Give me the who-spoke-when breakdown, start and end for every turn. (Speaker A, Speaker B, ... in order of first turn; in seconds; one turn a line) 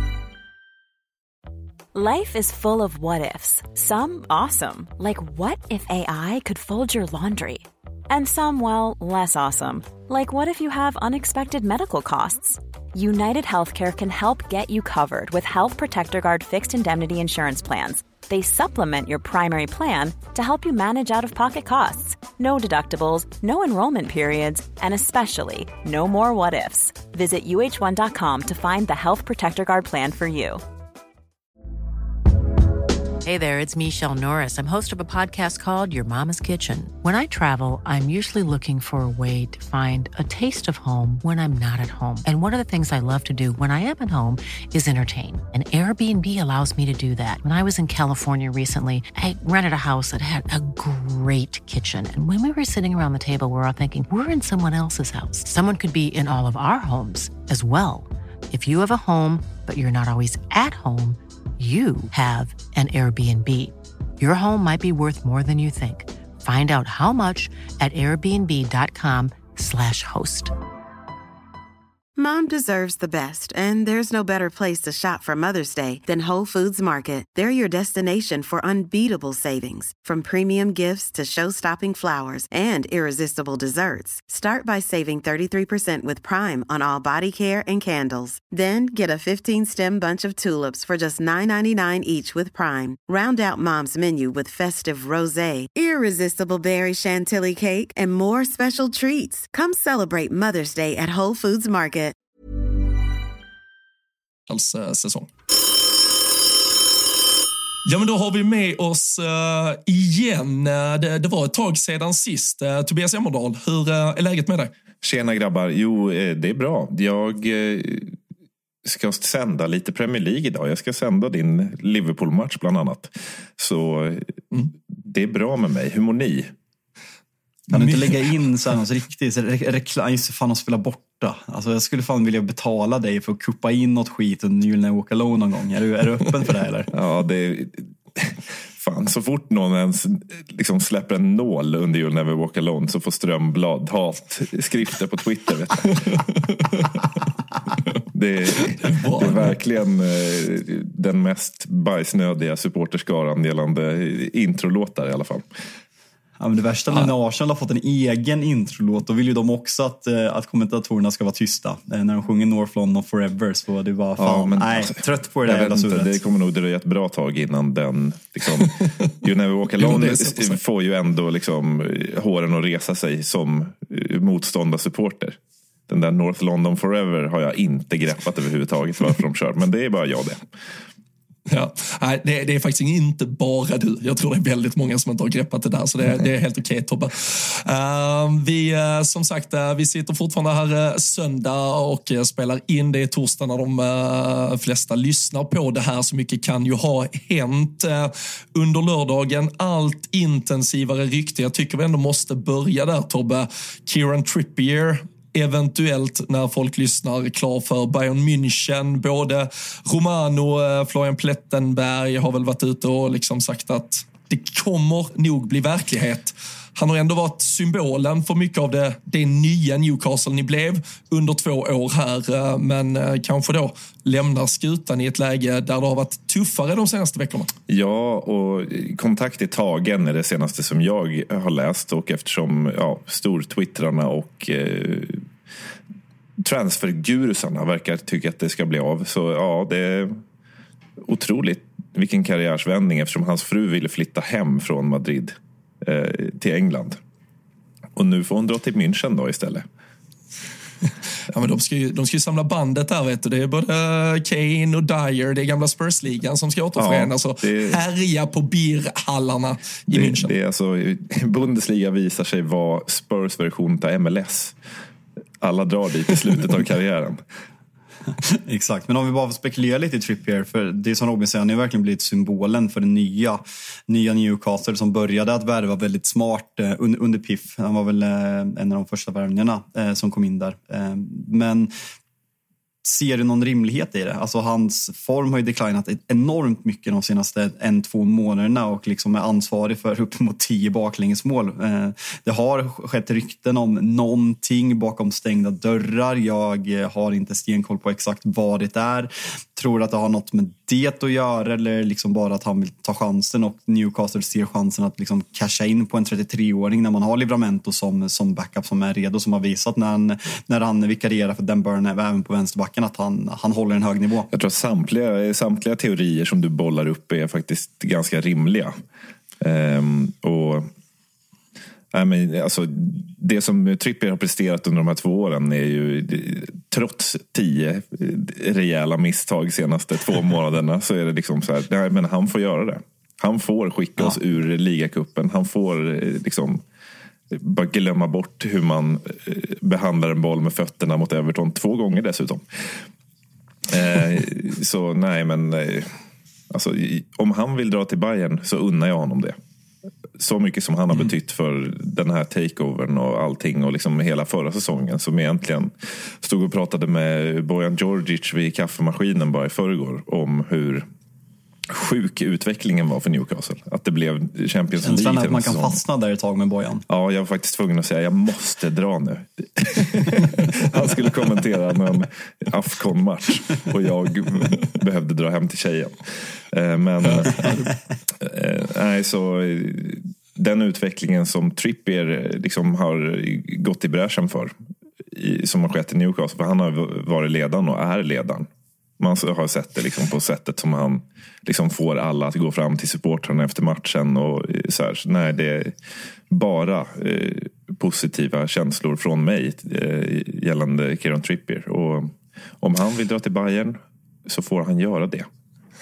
Speaker A: 1.9-30.6
Speaker B: 33.2-70.5
Speaker C: 72.2-102.1
Speaker D: 104.5-105.3
Speaker D: 107.8-114.7
Speaker E: 115.0-118.2
Speaker E: 118.8-124.3
Speaker E: 125.0-126.5
Speaker D: 127.7-128.1
Speaker F: 127.7-136.9
Speaker E: 136.9-146.3
Speaker D: 146.5-146.8
Speaker E: 148.1-155.5
Speaker D: 148.8-149.5
Speaker F: 156.4-166.2
Speaker E: 164.2-180.5
Speaker D: 169.8-170.6
Speaker D: 181.5-227.5
Speaker E: 227.7-235.2
Speaker E: 236.4-240.2
Speaker E: 241.0-247.0
Speaker E: 247.9-249.7
Speaker D: 251.3-260.3
Speaker E: 256.8-257.8
Speaker E: 259.9-264.6
Speaker E: 265.4-267.2
Speaker F: 268.4-281.7
Speaker F: 282.8-314.3
Speaker E: 314.3-318.8
Speaker E: 319.4-320.7
Speaker E: 321.9-336.6
Speaker E: 337.3-342.9
Speaker E: 343.7-346.0
Speaker E: 346.5-349.4
Speaker E: 350.2-360.9
Speaker E: 361.7-365.8
Speaker F: 364.8-366.8
Speaker E: 366.9-377.6
Speaker E: 378.2-384.5
Speaker E: 385.1-388.5
Speaker E: 389.0-395.8
Speaker E: 396.3-405.3